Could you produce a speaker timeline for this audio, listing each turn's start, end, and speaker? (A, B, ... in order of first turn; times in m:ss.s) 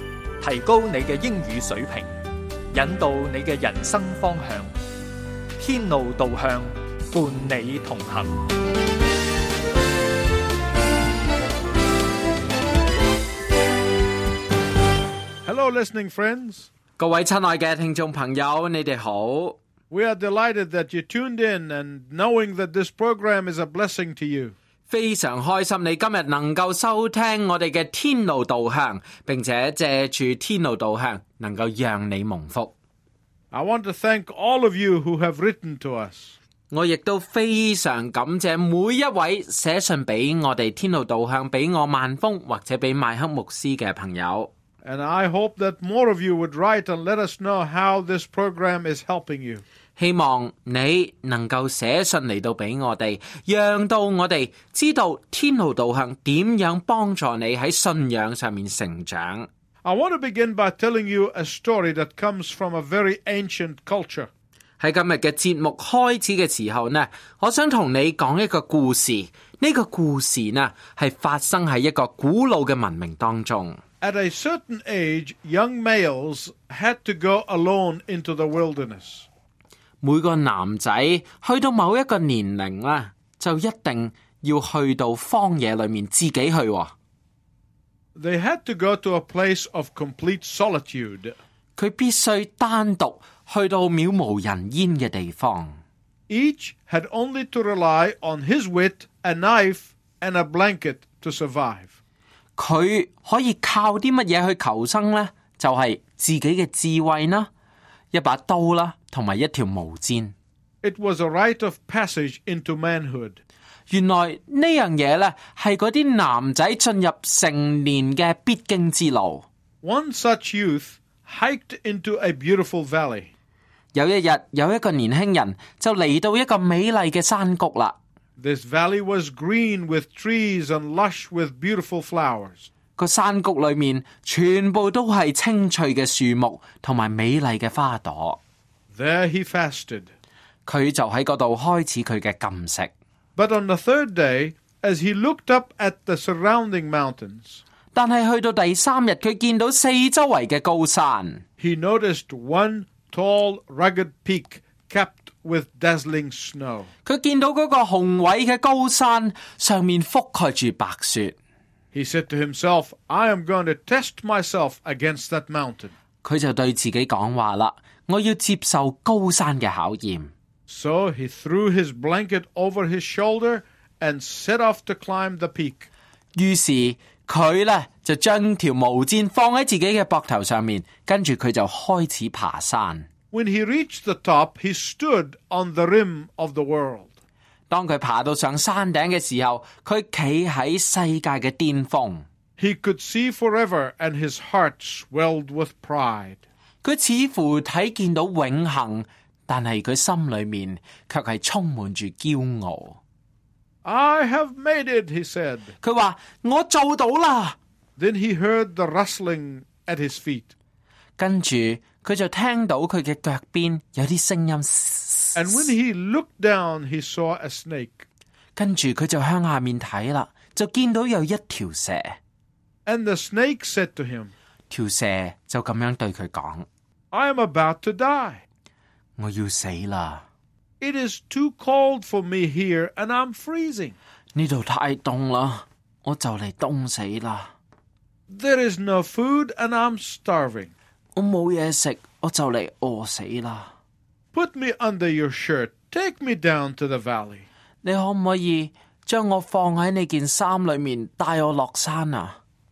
0:00.4-0:02.1 A
0:02.7-0:04.7 A
0:05.6-0:08.4 A
0:15.4-0:16.7 B
0:17.0-0:19.6 C
0:19.9-0:24.5 B
0:24.9-0:32.7 C
0:33.5-0:36.4 B
0:36.7-0:44.5 C
0:44.8-0:49.6 B
0:50.0-0:59.5 C
0:59.8-1:04.3 B
1:04.8-1:13.8 C
1:14.0-1:19.3 B
1:20.0-1:26.9 C
1:28.1-1:31.4 B
1:31.8-1:35.8 C
1:36.3-1:41.9 B
1:42.6-1:47.5 C
1:48.1-1:50.3 C
1:50.8-1:53.4 B
1:53.9-1:59.4 C
1:59.8-2:03.3 B
2:03.9-2:08.0 C
2:08.4-2:12.7 B
2:13.0-2:18.4 C
2:18.9-2:20.1 B
2:20.6-2:22.9 C
2:23.4-2:27.6 B
2:27.9-2:31.4 C
2:31.6-2:36.9 B
2:37.0-2:41.3 C
2:41.9-2:45.9 B
2:46.2-2:50.3 C
2:50.7-2:55.9 B
2:56.4-3:03.1 C
3:03.3-3:07.1 B
3:07.7-3:12.2 C
3:12.6-3:16.4 B
3:16.8-3:23.0 C
3:23.8-3:25.7 B
3:25.8-3:27.6 C
3:28.0-3:30.5 B
3:31.2-3:35.6 C
3:35.3-3:38.0 B
3:38.6-3:42.2 C
3:42.8-3:44.3 B
3:44.7-3:46.6 C
3:47.1-3:48.4 B
3:49.2-3:50.2 C
3:50.8-3:53.9 B
3:54.3-3:57.5 C
3:58.3-4:00.7 B
4:01.2-4:03.7 C
4:04.3-4:07.4 B
4:07.8-4:12.4 C